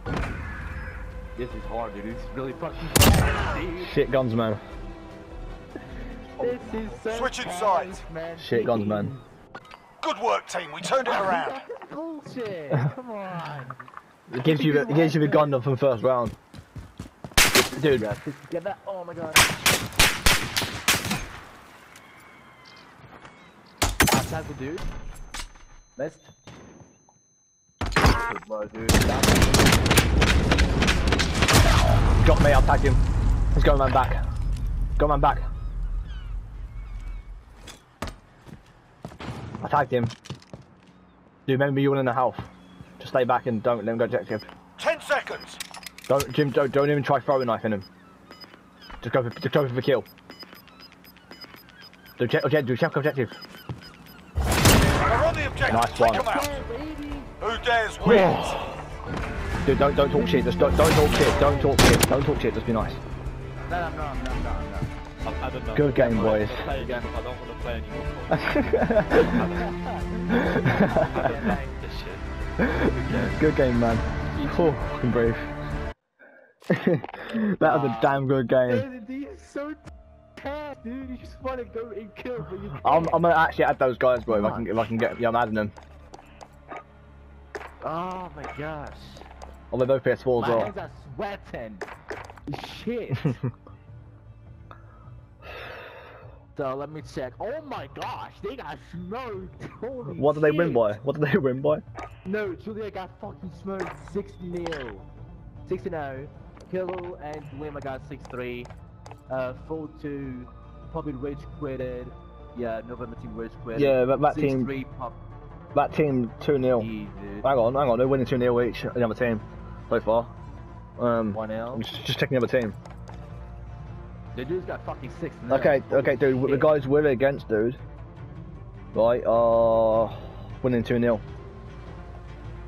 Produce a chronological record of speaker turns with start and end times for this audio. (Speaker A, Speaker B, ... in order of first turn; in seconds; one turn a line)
Speaker A: 1.4-4.0
Speaker B: 3.8-4.6
Speaker A: 6.4-9.3
Speaker C: 7.1-8.0
Speaker B: 8.4-9.1
Speaker C: 10.0-11.6
Speaker A: 11.0-13.8
Speaker B: 14.3-16.4
Speaker A: 14.4-15.6
Speaker B: 17.6-18.1
Speaker A: 17.7-19.6
Speaker A: 24.1-24.9
Speaker A: 26.0-26.3
Speaker A: 28.2-29.9
Speaker B: 32.2-33.0
Speaker B: 33.5-34.2
Speaker B: 35.0-35.4
Speaker B: 39.6-40.2
Speaker B: 41.5-42.5
Speaker B: 43.0-44.5
Speaker C: 44.8-45.6
Speaker B: 46.1-47.9
Speaker B: 49.0-50.1
Speaker B: 52.2-53.4
Speaker C: 54.7-56.6
Speaker B: 55.7-56.3
Speaker A: 56.0-57.3
Speaker C: 57.4-58.6
Speaker B: 58.0-58.6
Speaker B: 59.6-63.0
Speaker A: 60.1-61.8
Speaker A: 63.7-64.9
Speaker D: 65.2-69.7
Speaker B: 65.7-66.7
Speaker A: 66.0-67.1
Speaker B: 68.3-69.5
Speaker A: 69.5-71.8
Speaker B: 70.3-71.4
Speaker D: 70.6-72.2
Speaker B: 72.6-75.5
Speaker B: 76.7-78.9
Speaker A: 77.6-79.8
Speaker A: 80.4-83.2
Speaker B: 82.8-85.8
Speaker A: 84.3-84.7
Speaker A: 87.8-89.3
Speaker B: 89.7-90.7
Speaker A: 90.4-91.9
Speaker A: 92.5-93.4
Speaker A: 96.5-101.0
Speaker B: 100.1-101.8
Speaker A: 102.2-105.1
Speaker A: 105.7-108.7
Speaker A: 109.3-115.2
Speaker B: 113.8-114.7
Speaker B: 115.7-116.9
Speaker A: 116.8-117.5
Speaker B: 117.4-120.3
Speaker B: 121.0-122.8
Speaker A: 121.3-121.9
Speaker A: 124.3-126.8
Speaker B: 125.5-127.8
Speaker B: 128.9-131.2